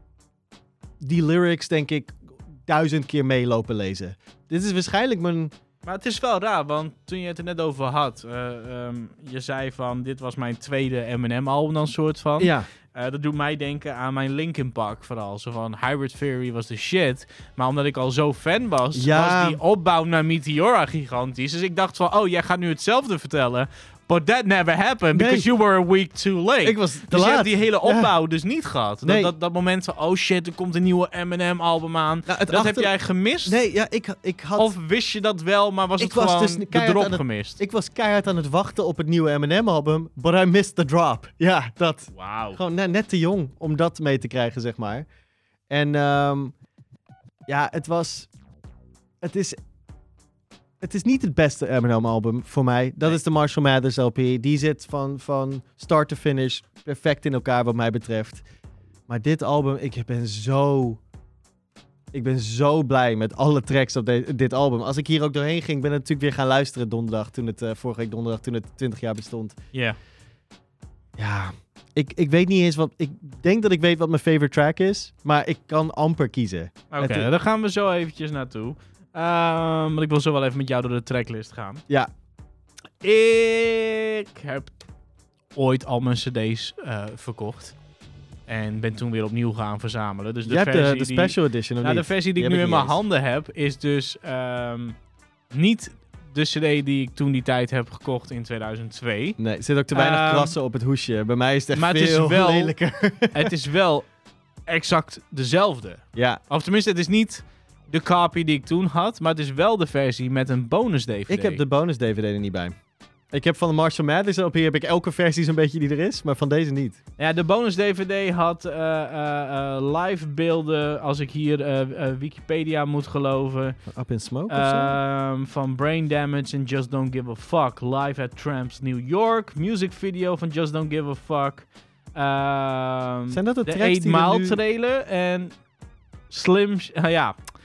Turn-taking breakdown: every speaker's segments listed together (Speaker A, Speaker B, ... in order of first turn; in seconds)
Speaker A: 1.0-5.5, 12.4-12.7, 18.9-19.6, 25.1-25.5, 26.6-28.1, 29.0-29.3, 32.3-32.9, 33.5-34.7, 36.0-45.1, 45.7-46.5, 47.5-48.3, 49.2-49.6, 50.8-58.4, 59.1-61.0, 62.1-69.6, 71.2-77.3, 90.5-93.0, 99.4-103.5, 106.2-106.4, 111.3-112.8, 113.3-117.0, 123.9-125.0, 133.3-134.6
Speaker B: 5.8-33.6, 34.6-37.6, 42.1-42.6, 76.9-81.8, 83.0-84.8, 85.5-87.8, 88.5-95.0, 95.5-99.4, 99.9-100.5, 101.8-102.8, 103.3-104.1, 104.7-111.6, 117.2-123.8, 124.5-135.6, 136.3-137.4